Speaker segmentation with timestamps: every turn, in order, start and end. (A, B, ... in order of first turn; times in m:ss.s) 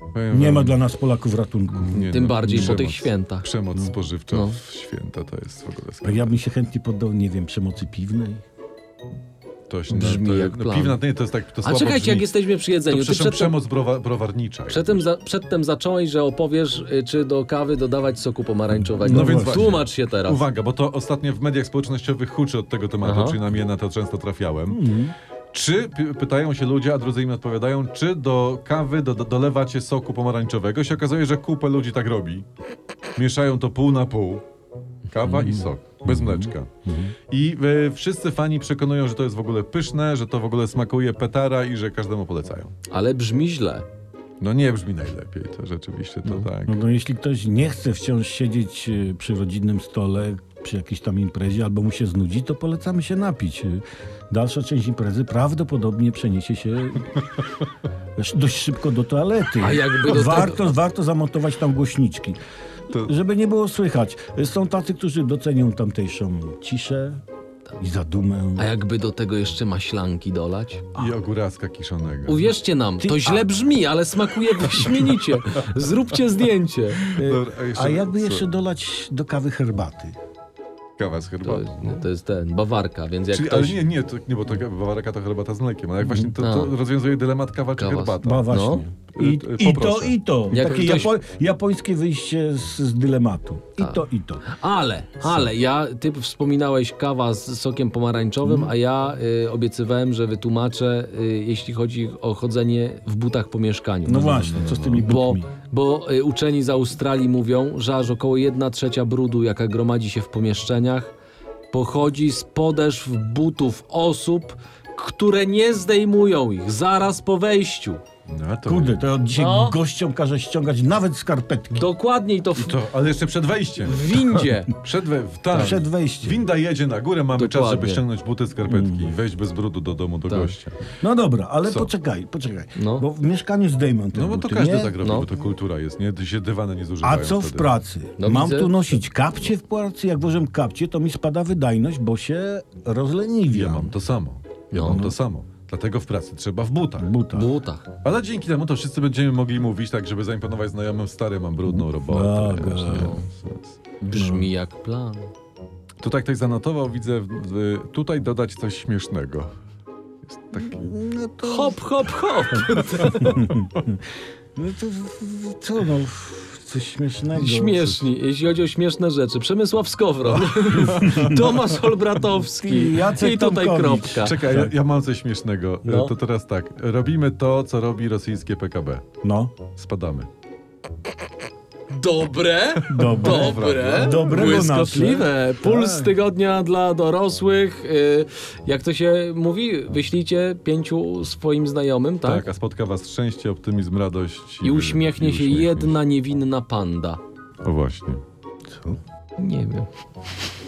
0:00.1-0:00.8 A
0:00.3-0:02.8 B
0:01.7-0:06.4 A
0:02.0-0:03.5 C
0:04.3-0:04.6 C
0:06.0-0:08.4 B
0:09.7-0:12.3 A
0:09.9-0:11.0 C
0:11.6-0:13.5 C
0:12.9-0:15.0 A
0:14.7-0:20.4 C
0:18.9-0:19.8 B
0:19.0-0:24.9 A
0:23.0-0:23.4 C
0:24.7-0:25.1 B
0:25.5-0:32.5 A
0:33.2-0:34.4 A
0:35.1-0:36.7 A
0:35.5-0:37.1 B
0:37.3-0:42.7 A
0:42.9-0:43.8 C
0:44.4-0:46.8 A
0:46.7-0:57.3 B
0:58.2-1:02.4 B
0:59.6-1:00.7 C
1:03.0-1:07.2 B
1:07.8-1:08.7 B
1:08.6-1:10.9 C
1:11.0-1:12.5 A
1:12.3-1:17.1 C
1:13.0-1:13.5 B
1:17.0-1:18.5 A
1:17.1-1:20.2 B
1:21.0-1:22.0 A
1:21.4-1:23.8 C
1:23.3-1:28.5 A
1:26.0-1:26.3 B
1:26.4-1:26.8 C
1:27.8-1:28.8 C
1:28.2-1:34.5 B
1:29.1-1:31.0 A
1:30.5-1:31.2 C
1:33.8-1:44.4 C
1:38.4-1:38.7 B
1:44.1-1:45.5 B
1:44.1-1:45.1 A
1:45.0-1:51.1 C
1:51.7-1:58.0 C
1:58.3-1:59.0 A
1:58.7-2:01.9 B
1:59.3-1:59.8 C
2:01.7-2:02.8 C
2:02.6-2:04.1 A
2:03.8-2:04.7 C
2:04.7-2:10.8 A
2:05.5-2:06.4 B
2:07.4-2:08.0 C
2:08.7-2:09.1 B
2:10.3-2:10.5 C
2:11.0-2:15.0 B
2:11.6-2:11.9 A
2:12.8-2:13.1 C
2:14.1-2:17.7 A
2:15.0-2:15.3 C
2:17.0-2:23.9 B
2:18.2-2:19.0 C
2:23.5-2:27.1 A
2:24.7-2:25.1 C
2:24.8-2:25.1 B
2:27.0-2:27.5 B
2:27.3-2:27.9 C
2:28.0-2:33.8 A
2:31.7-2:33.2 B
2:32.9-2:33.3 C
2:34.0-2:35.3 C
2:34.1-2:34.5 B
2:36.0-2:39.5 A
2:40.2-2:40.9 A
2:40.6-2:41.8 B
2:41.4-2:43.4 C
2:43.2-2:48.1 B
2:47.4-2:54.4 C
2:50.4-2:51.7 A
2:50.8-2:51.4 B
2:52.6-2:54.7 B
2:54.2-2:59.0 A
2:55.8-2:56.1 C
2:59.2-2:59.5 B
2:59.7-3:00.3 A
3:01.9-3:12.4 C
3:02.9-3:06.1 B
3:02.9-3:04.7 A
3:12.2-3:16.0 A
3:14.6-3:17.2 C
3:17.6-3:18.2 A
3:18.7-3:19.0 B
3:19.4-3:19.9 C